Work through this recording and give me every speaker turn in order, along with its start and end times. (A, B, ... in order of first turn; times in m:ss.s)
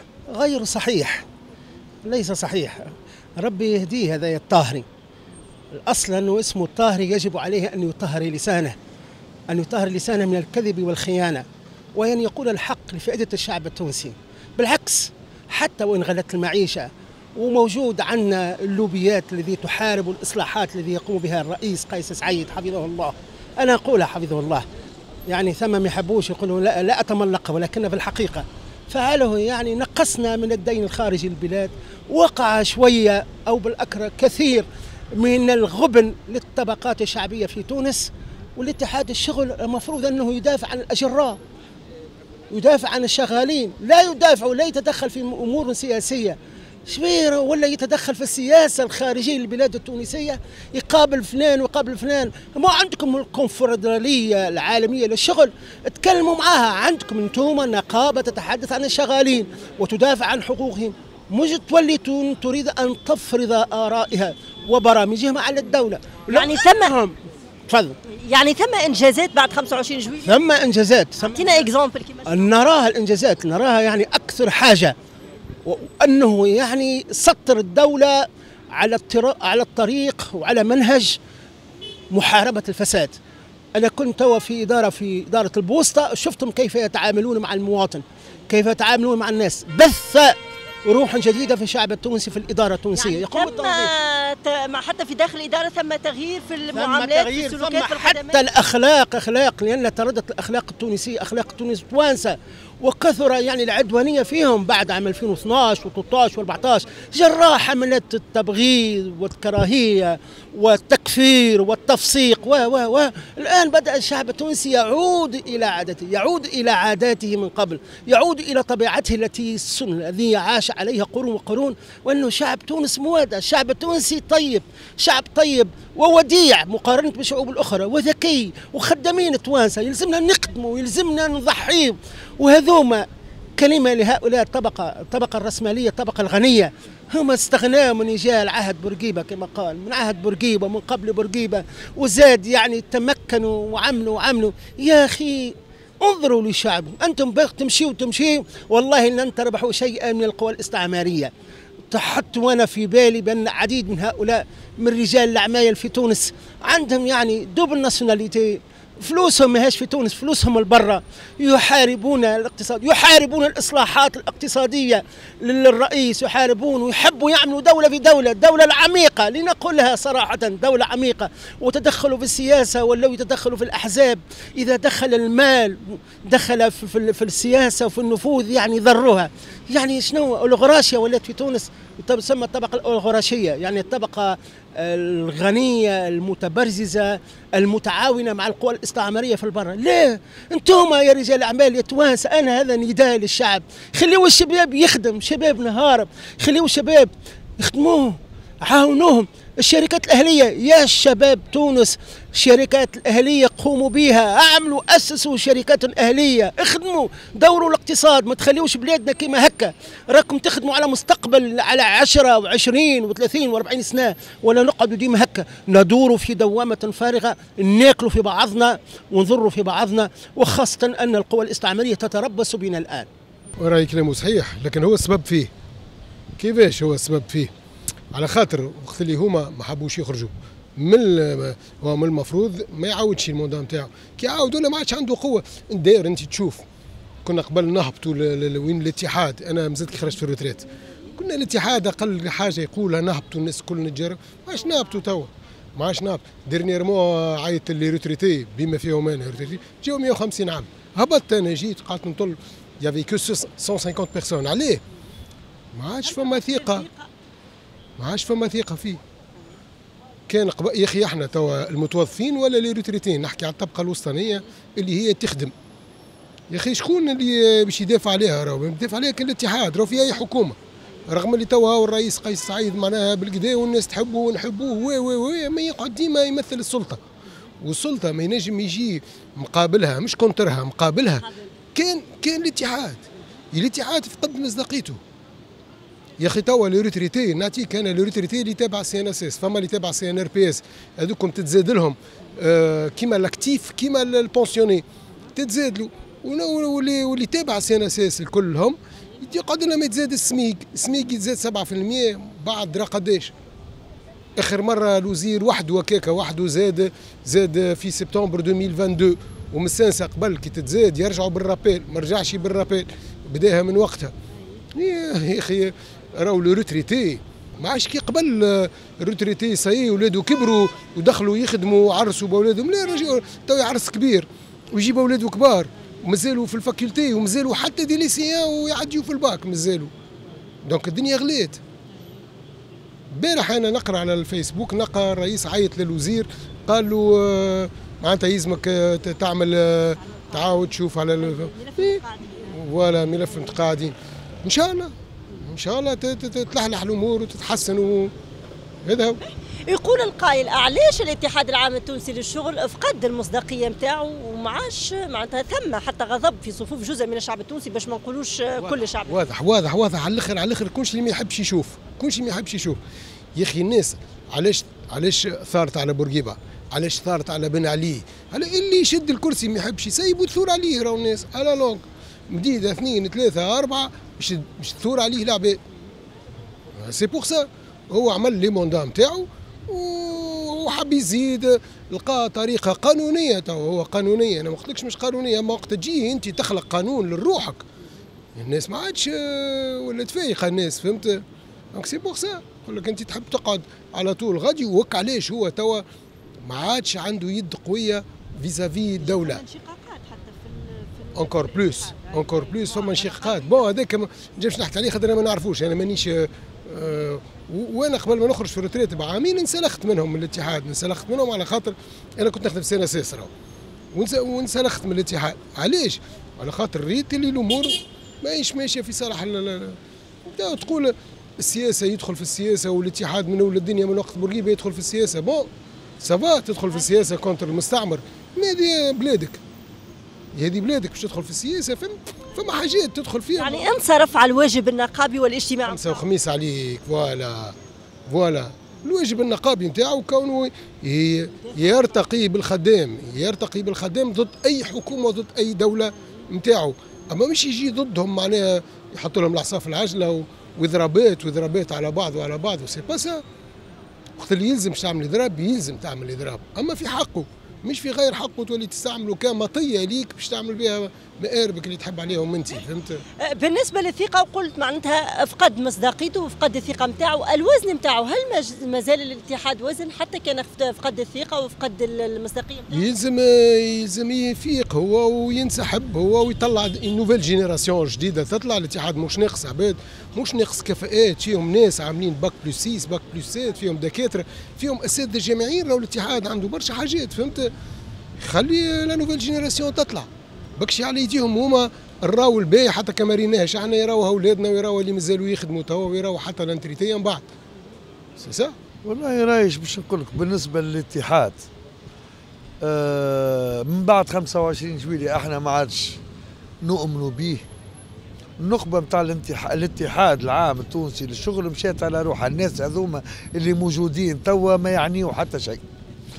0:00.3-0:01.2 A
0:02.0-0:04.9 A
0:05.7-0:08.8 A
0:09.5-0:24.6 A
0:25.3-0:41.4 A
0:42.5-1:07.2 A
1:06.3-1:06.9 B
1:07.7-1:08.0 A
1:08.2-1:10.4 B
1:10.2-1:11.6 A
1:11.2-1:12.5 B
1:12.3-1:15.0 A
1:15.6-1:21.2 A
1:22.1-1:23.2 A
1:23.7-1:33.9 A
1:33.0-1:38.4 B
1:36.7-2:13.0 A
2:13.6-2:31.3 A
2:31.9-3:43.1 A
3:43.6-3:45.5 C
3:46.4-3:47.5 C
3:48.1-3:56.6 C
3:57.2-4:14.8 C
4:15.7-4:16.9 C
4:16.0-4:17.1 B
4:18.0-4:19.0 C
4:20.3-4:25.5 C
4:26.5-4:30.6 C
4:31.1-4:37.0 C
4:37.6-4:43.0 C
4:43.5-4:45.0 C
4:46.2-4:54.8 C
4:55.4-5:03.3 C
5:04.4-5:14.1 C
5:14.8-5:29.9 C
5:30.7-5:31.6 C
5:33.1-5:48.1 C
5:40.0-5:42.6 B
5:48.8-5:49.2 C
5:49.7-5:59.3 B
5:58.6-6:02.8 C
6:03.4-6:15.6 C
6:16.8-6:27.6 C
6:28.4-6:35.8 C
6:36.4-6:39.4 C
6:39.0-6:43.6 B
6:41.2-6:53.3 C
6:53.9-7:05.5 C
7:06.0-7:09.4 C
7:10.4-7:13.7 C
7:13.4-7:16.0 B
7:15.6-7:17.6 C
7:18.1-7:33.2 C
7:34.2-7:43.0 C
7:43.2-7:52.8 B
7:52.7-8:07.5 C
8:08.2-8:10.1 C
8:10.6-8:17.2 C
8:18.2-8:18.6 C
8:18.9-8:21.4 D
8:22.6-8:26.0 D
8:26.6-8:27.4 D
8:28.4-8:35.6 D